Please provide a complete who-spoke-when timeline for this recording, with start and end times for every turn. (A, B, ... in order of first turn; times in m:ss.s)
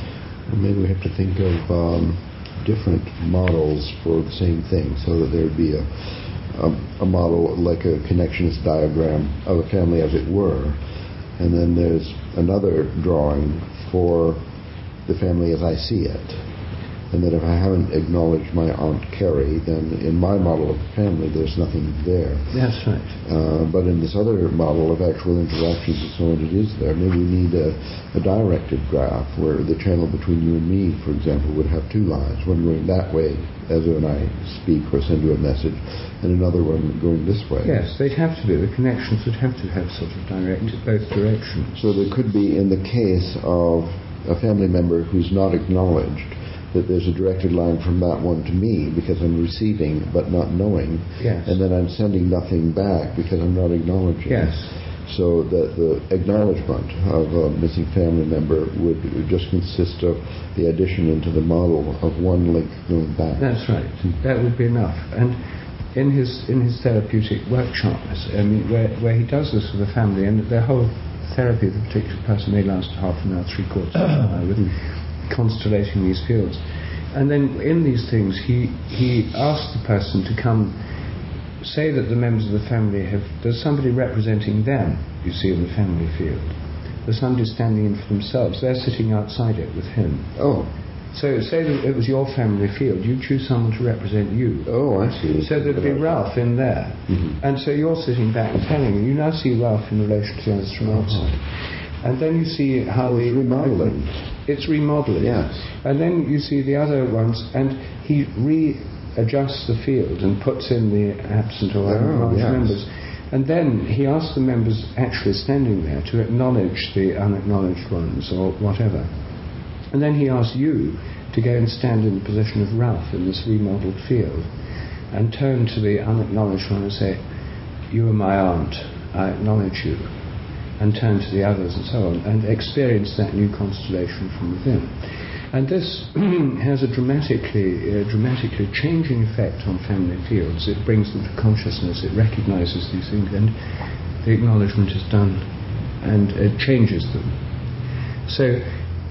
0:00.5-0:10.8 A
0:11.4-0:14.4 A
0:15.1-0:16.4 A
0:17.1-0:22.5 A
0:22.5-0:23.2 B
0:23.2-0:37.8 A
0:37.6-0:41.8 B
0:41.8-1:03.5 A
0:51.2-0:51.6 B
0:54.3-0:54.7 B
1:03.4-1:05.4 B
1:05.9-1:16.6 B
1:17.1-1:20.8 B
1:21.6-1:30.3 B
1:30.4-1:30.7 A
1:31.1-1:34.7 B
1:34.7-1:36.2 A
1:35.4-1:41.4 B
1:37.1-1:37.4 A
1:40.9-1:41.4 A
1:42.0-1:59.1 B
1:43.0-1:44.2 A
1:45.2-1:45.7 A
1:51.8-1:52.8 A
1:59.9-2:04.5 B
2:05.1-2:07.2 B
2:07.9-2:10.1 B
2:10.8-2:15.0 B
2:15.5-2:23.5 B
2:24.2-2:25.5 B
2:26.0-2:27.4 B
2:28.3-2:28.8 B